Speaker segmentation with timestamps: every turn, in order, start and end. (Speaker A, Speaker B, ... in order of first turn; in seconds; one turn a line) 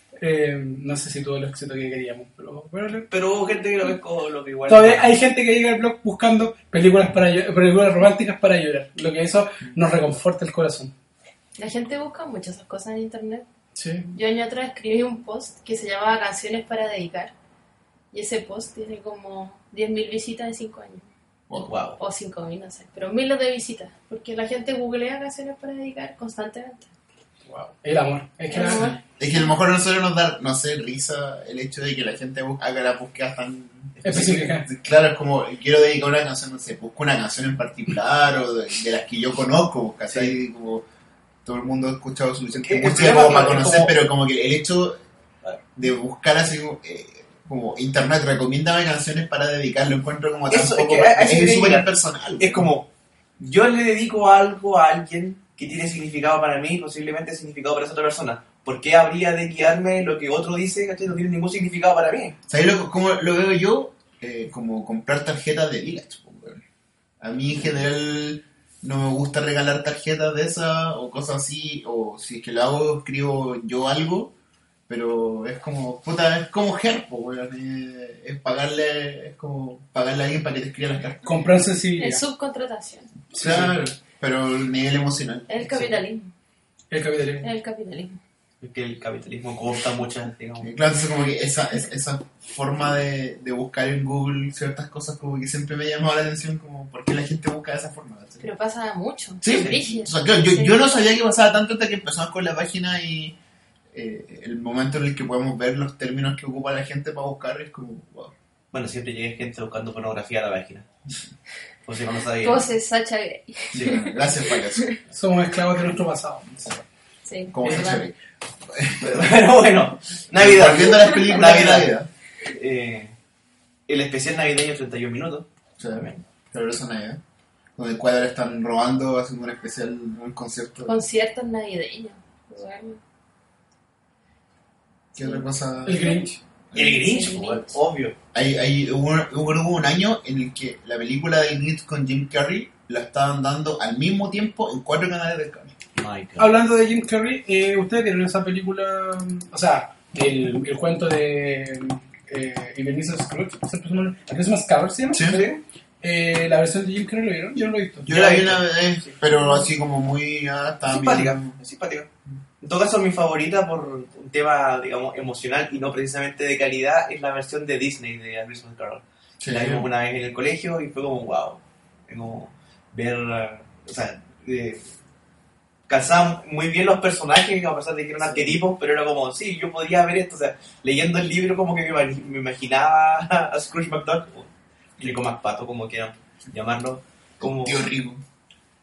Speaker A: 0.2-3.1
Speaker B: 3.1-5.1
Speaker A: 4.7-10.9
Speaker C: 11.6-13.5
Speaker A: 13.8-14.1
Speaker C: 14.1-17.3
Speaker C: 18.1-21.0
Speaker D: 21.5-21.7
Speaker B: 21.6-22.0
Speaker C: 22.0-26.9
Speaker A: 27.5-28.8
Speaker C: 28.5-29.5
Speaker D: 28.6-40.8
Speaker B: 34.0-34.5
Speaker A: 34.0-34.7
Speaker D: 41.4-45.0
Speaker B: 42.6-43.9
Speaker D: 45.8-52.7
Speaker B: 50.5-52.9
Speaker B: 53.4-62.4
Speaker D: 62.5-66.6
Speaker D: 67.2-74.3
Speaker D: 74.9-81.3
Speaker A: 81.2-82.2
Speaker C: 82.0-83.1
Speaker A: 83.3-83.8
Speaker D: 83.3-85.9
Speaker C: 85.5-86.3
Speaker A: 86.9-87.5
Speaker C: 87.4-88.2
Speaker B: 88.6-90.7
Speaker D: 90.6-98.4
Speaker C: 98.4-101.0
Speaker D: 99.4-103.4
Speaker B: 99.5-99.8
Speaker D: 103.9-108.3
Speaker B: 108.7-110.9
Speaker B: 111.8-112.7
Speaker C: 112.4-114.8
Speaker D: 113.7-114.9
Speaker A: 115.1-116.5
Speaker C: 117.2-118.0
Speaker D: 117.5-118.1
Speaker D: 118.7-119.3
Speaker B: 119.0-121.9
Speaker D: 120.3-122.1
Speaker B: 122.5-123.1
Speaker B: 123.9-125.5
Speaker D: 125.8-127.2
Speaker D: 127.8-131.0
Speaker C: 130.8-133.0
Speaker D: 135.1-137.0
Speaker A: 135.8-136.3
Speaker B: 136.7-138.2
Speaker C: 136.7-137.8
Speaker D: 138.3-145.7
Speaker B: 145.9-146.5
Speaker A: 146.4-158.2
Speaker D: 155.1-155.5
Speaker D: 158.1-161.6
Speaker B: 158.1-159.2
Speaker B: 160.9-162.1
Speaker B: 162.6-174.9
Speaker D: 169.4-169.9
Speaker B: 175.9-187.8
Speaker D: 178.2-178.6
Speaker D: 187.4-188.2